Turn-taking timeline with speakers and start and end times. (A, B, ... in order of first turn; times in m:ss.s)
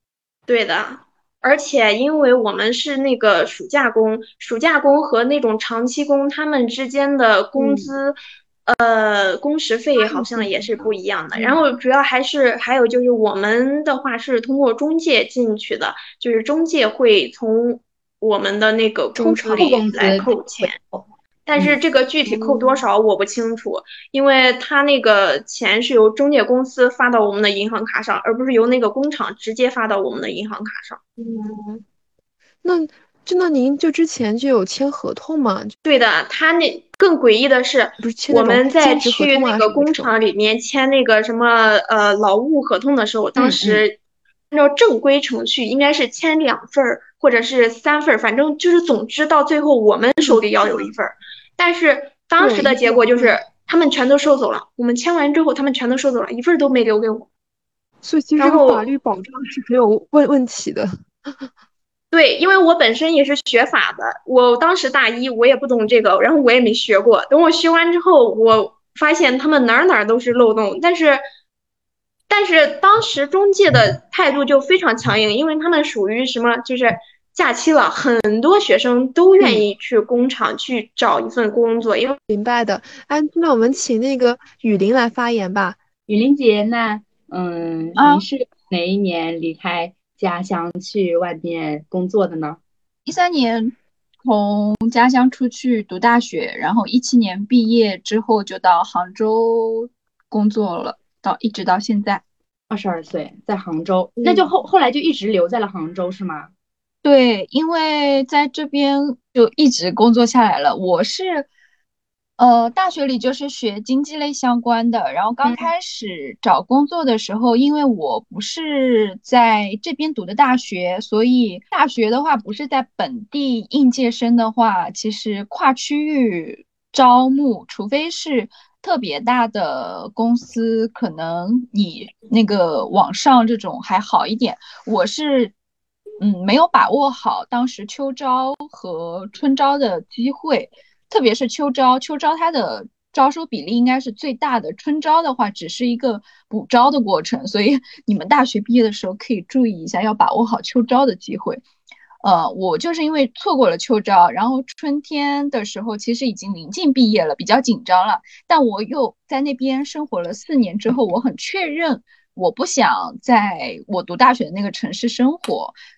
0:00.5-0:08.1 A
0:07.5-0:07.9 B
0:08.7-0:20.8 A
0:10.0-0:10.9 B
0:19.1-0:19.8 B
0:19.4-0:21.0 C
0:21.5-0:31.0 A
0:22.2-0:22.8 B
0:31.2-0:31.8 B
0:32.6-0:35.7 B
0:35.8-0:44.0 A
0:38.0-0:40.1 B
0:43.4-0:43.8 B
0:44.5-0:57.3 A
0:50.2-0:50.9 B
0:52.4-0:53.4 B
0:58.0-1:01.5 B
0:58.4-0:58.9 A
1:02.1-1:11.2 A
1:12.3-1:22.2 A
1:22.3-1:25.8 B
1:26.1-1:32.6 C
1:28.0-1:28.2 D
1:33.0-1:42.2 D
1:42.7-1:46.5 C
1:44.2-1:44.5 B
1:47.0-1:51.5 D
1:52.4-2:15.5 D
1:55.4-1:55.7 C
2:16.2-2:31.6 D
2:32.2-2:45.8 D